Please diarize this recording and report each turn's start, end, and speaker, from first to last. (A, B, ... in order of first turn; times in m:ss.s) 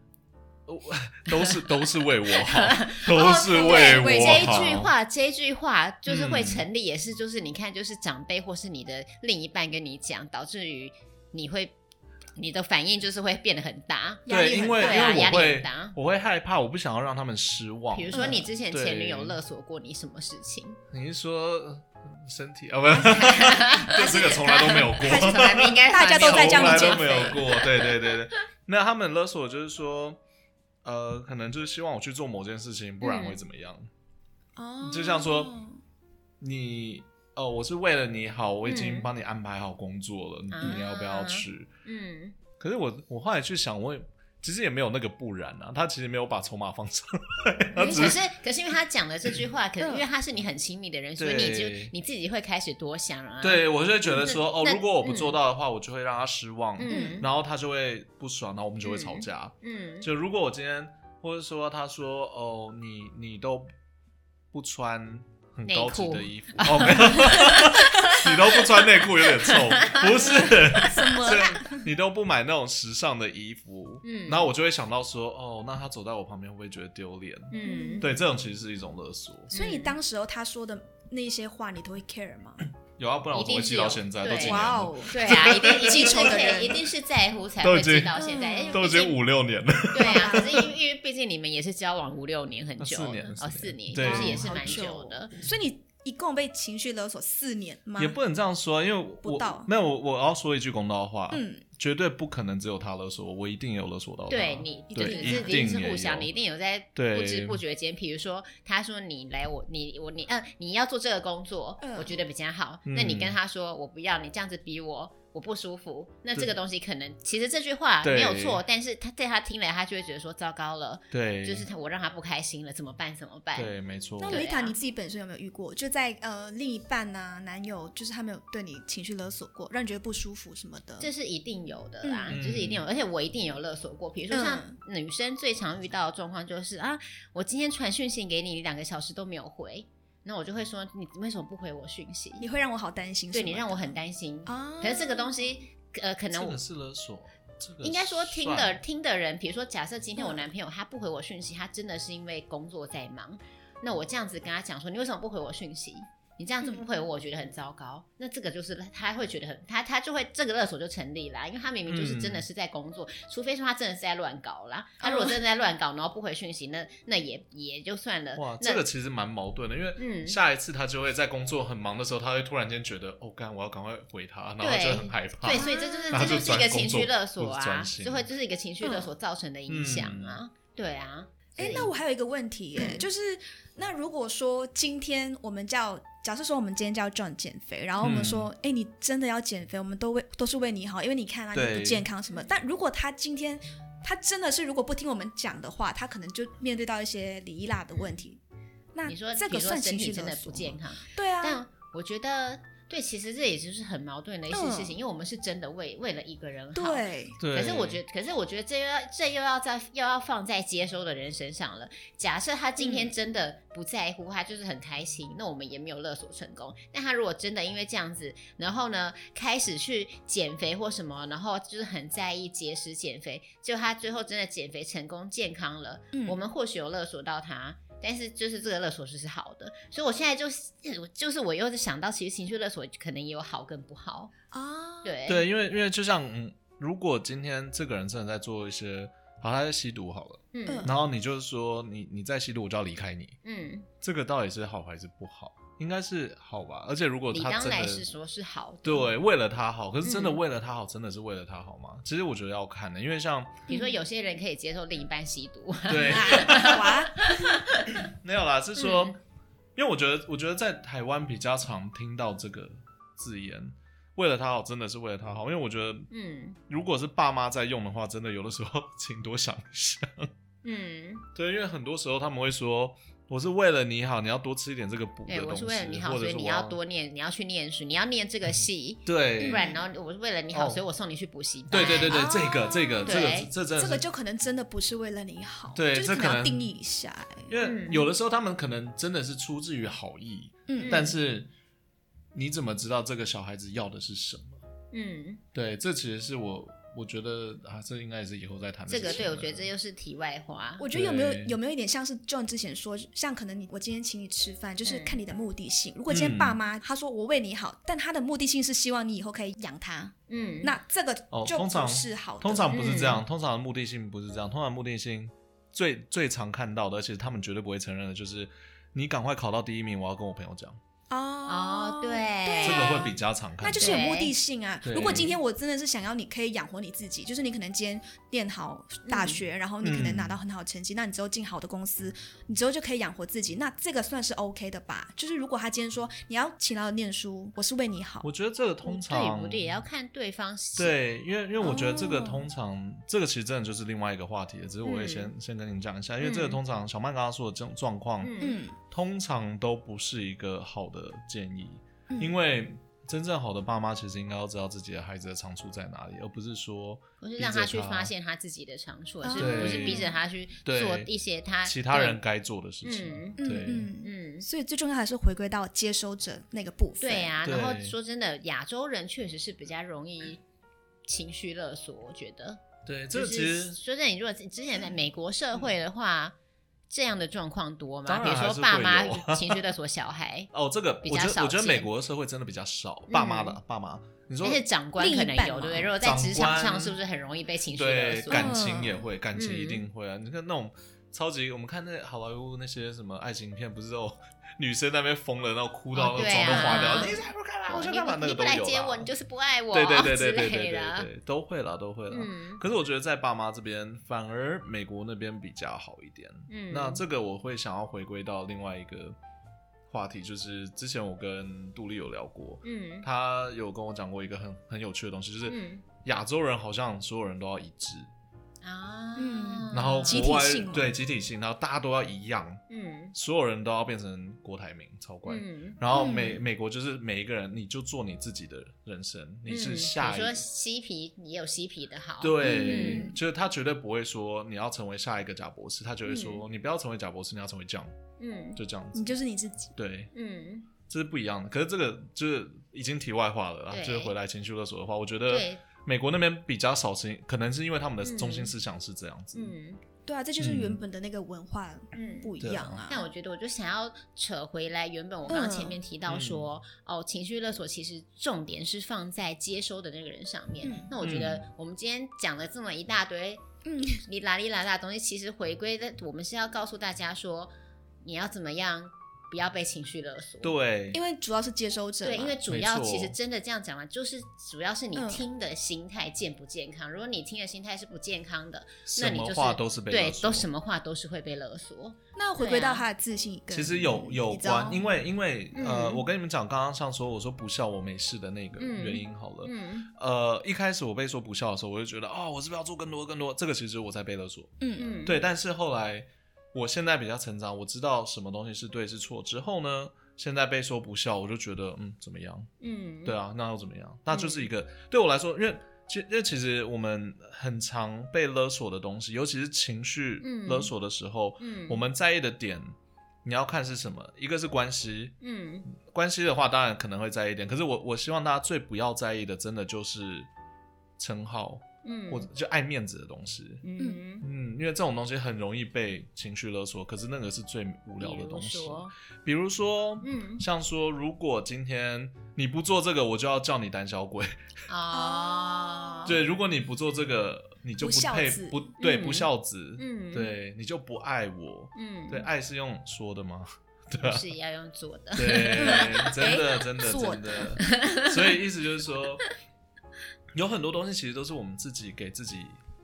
0:00.7-0:04.9 A
0:01.3-0:01.6 B
0:02.3-0:11.8 B
0:03.5-0:04.7 C
0:06.1-0:06.6 A
0:12.4-0:14.2 B
0:14.3-0:15.3 C
0:14.3-0:19.4 A
0:14.8-0:16.0 B
0:17.9-0:20.8 B
0:18.1-0:18.4 C
0:20.9-0:30.2 A
0:23.0-0:28.1 B
0:25.0-0:27.5 C
0:30.8-0:33.9 A
0:33.0-0:33.4 B
0:34.6-0:35.8 C
0:34.8-0:35.5 A
0:36.4-0:41.7 A
0:38.7-0:39.1 B
0:40.5-0:42.4 B
0:42.6-0:48.2 A
0:47.8-0:55.3 B
0:47.8-0:48.1 C
0:49.8-0:50.1 C
0:51.2-0:51.9 A
0:53.4-1:03.7 A
0:56.8-0:57.2 B
0:56.9-0:57.2 C
0:58.8-1:00.1 B
1:04.5-1:19.5 A
1:05.7-1:11.5 B
1:10.3-1:11.8 C
1:14.0-1:14.5 B
1:17.5-1:18.1 B
1:17.6-1:18.1 C
1:19.5-1:20.0 B
1:19.5-1:22.6 C
1:23.0-1:26.4 A
1:23.3-1:29.2 B
1:24.3-1:26.8 C
1:27.6-1:30.7 A
1:28.2-1:28.9 C
1:29.9-1:35.3 B
1:30.0-1:30.6 C
1:32.8-1:34.8 A
1:34.0-1:38.2 C
1:38.0-1:46.3 A
1:39.2-1:39.7 C
1:41.3-1:41.6 C
1:44.3-2:04.8 B
1:44.9-1:45.7 C
1:47.0-1:47.6 A
1:51.8-1:52.1 C
1:52.9-1:53.4 A
1:58.0-1:58.6 A
2:01.1-2:01.7 A
2:03.6-2:04.4 A
2:04.2-2:11.1 C
2:11.0-2:22.5 B
2:12.0-2:12.4 C
2:12.3-2:12.8 A
2:14.3-2:14.8 C
2:22.4-2:25.4 C
2:23.3-2:26.6 B
2:26.3-2:28.8 A
2:27.8-2:48.8 B
2:30.2-2:30.4 C
2:41.9-2:42.5 A
2:45.0-2:45.4 C
2:48.4-2:58.3 A
2:50.0-2:50.4 B
2:54.6-3:01.9 B
2:55.5-2:56.4 C
2:58.8-2:59.1 C
2:59.7-3:00.4 A
3:01.6-3:18.4 C
3:08.0-3:08.5 A
3:11.5-3:12.1 A
3:18.9-3:21.6 C
3:19.1-3:54.3 B
3:24.5-3:25.0 C
3:26.8-3:27.4 C
3:27.4-3:28.0 A
3:32.8-3:33.1 C
3:54.5-3:55.2 C
3:55.0-3:55.4 B
3:55.3-4:03.4 A
4:00.5-4:00.9 B
4:00.7-4:01.0 C
4:03.4-4:03.9 B
4:04.0-4:08.1 A
4:07.3-4:09.1 B
4:08.8-4:13.7 A
4:10.0-4:10.4 B
4:13.7-4:17.9 B
4:13.7-4:14.0 C
4:15.9-4:17.0 A
4:16.1-4:17.3 C
4:18.0-4:19.2 A
4:18.8-4:19.2 B
4:19.8-4:26.1 A
4:26.1-4:26.6 B
4:26.7-4:30.3 A
4:30.6-4:31.2 B
4:31.4-4:36.8 A
4:35.3-4:42.2 B
4:38.6-4:39.7 A
4:39.4-4:39.8 C
4:40.5-4:40.8 A
4:41.7-4:44.0 A
4:41.8-4:47.5 C
4:43.1-4:43.5 B
4:45.7-4:46.7 A
4:47.5-4:51.5 A
4:47.6-4:48.1 B
4:50.7-4:51.1 C
4:50.8-4:51.2 B
4:52.3-4:54.6 A
4:54.9-4:55.4 B
4:55.5-4:59.7 A
4:58.9-5:00.8 B
5:00.8-5:13.2 C
5:00.9-5:01.6 A
5:04.8-5:05.2 B
5:06.1-5:06.6 A
5:10.3-5:10.7 B
5:11.3-5:20.8 A
5:12.7-5:13.2 B
5:21.1-5:38.3 C
5:21.5-5:23.1 B
5:22.6-5:24.0 A
5:23.8-5:24.3 B
5:24.8-5:25.4 A
5:29.1-5:29.4 B
5:29.8-5:30.4 A
5:38.2-5:39.8 A
5:38.8-5:41.0 B
5:40.8-5:48.4 A
5:41.6-5:42.5 C
5:44.8-5:45.3 B
5:46.2-5:46.6 B
5:48.2-5:48.6 B
5:48.4-5:48.8 C
5:48.9-5:58.1 A
5:52.1-5:52.4 C
5:57.2-6:02.2 B
5:59.2-6:00.1 C
5:59.4-6:00.1 A
6:00.6-6:01.1 A
6:01.6-6:03.9 A
6:02.8-6:03.4 B
6:03.4-6:07.4 C
6:04.0-6:04.4 B
6:07.0-6:10.4 B
6:07.4-6:08.0 A
6:11.1-6:16.4 B
6:12.9-6:13.8 A
6:16.9-6:20.5 B
6:18.1-6:19.6 A
6:20.5-6:24.6 A
6:21.0-6:21.9 B
6:23.1-6:23.6 B
6:24.4-6:28.6 B
6:25.0-6:25.9 C
6:26.0-6:27.0 A
6:27.7-6:39.1 A
6:28.3-6:29.1 C
6:29.3-6:29.8 B
6:35.9-6:37.2 B
6:36.6-6:37.2 C
6:37.7-6:41.1 B
6:39.7-6:49.2 A
6:42.1-6:42.6 B
6:46.5-6:47.0 B
6:49.9-6:58.1 A
6:52.6-6:53.1 B
6:55.5-6:55.8 B
6:58.6-7:00.4 B
6:59.2-7:00.9 C
6:59.7-7:02.6 A
7:02.7-7:03.1 B
7:03.1-7:10.4 A
7:05.3-7:06.1 B
7:05.9-7:06.4 C
7:09.5-7:13.1 B
7:12.2-7:17.9 A
7:12.4-7:13.2 C
7:16.1-7:16.4 B
7:18.2-7:18.6 B
7:18.6-7:19.1 A
7:18.9-7:19.7 C
7:19.8-7:20.1 A
7:20.1-7:20.7 B
7:20.8-7:29.5 A
7:23.7-7:24.1 B
7:25.3-7:25.6 B
7:28.0-7:28.5 B
7:29.3-7:29.8 B
7:30.1-7:33.1 C
7:30.4-7:30.8 A
7:31.9-7:32.3 B
7:32.4-7:32.8 A
7:32.9-7:47.5 B
7:35.3-7:35.8 C
7:36.1-7:36.5 A
7:40.6-7:40.9 C
7:41.0-7:41.5 A
7:43.6-7:44.0 C
7:48.0-7:50.5 B
7:50.4-7:51.0 A
7:50.9-7:52.4 C
7:52.0-8:02.8 B
7:52.5-7:53.2 A
7:54.9-7:55.2 C
7:58.9-8:00.5 A
8:02.2-8:04.8 C
8:03.5-8:22.5 A
8:05.5-8:06.0 B
8:08.6-8:09.9 B
8:14.6-8:14.9 C
8:14.8-8:15.2 B
8:22.6-8:23.2 B
8:23.0-8:32.7 A
8:24.1-8:24.5 B
8:30.2-8:30.7 B
8:31.4-8:31.8 B
8:33.2-8:35.2 A
8:35.2-8:35.7 B
8:35.7-8:40.3 A
8:41.0-8:43.6 A
8:41.8-8:42.3 B
8:43.6-8:44.2 B
8:44.2-8:54.3 A
8:48.0-8:48.9 B
8:50.0-8:50.4 B
8:54.7-8:56.2 B
8:54.9-8:56.2 C
8:56.0-9:04.2 A
8:57.8-8:58.6 C
8:58.8-9:00.3 B
9:01.8-9:02.3 B
9:04.0-9:06.4 B
9:05.2-9:09.2 A
9:05.6-9:07.6 C
9:07.6-9:08.4 B
9:10.3-9:12.6 A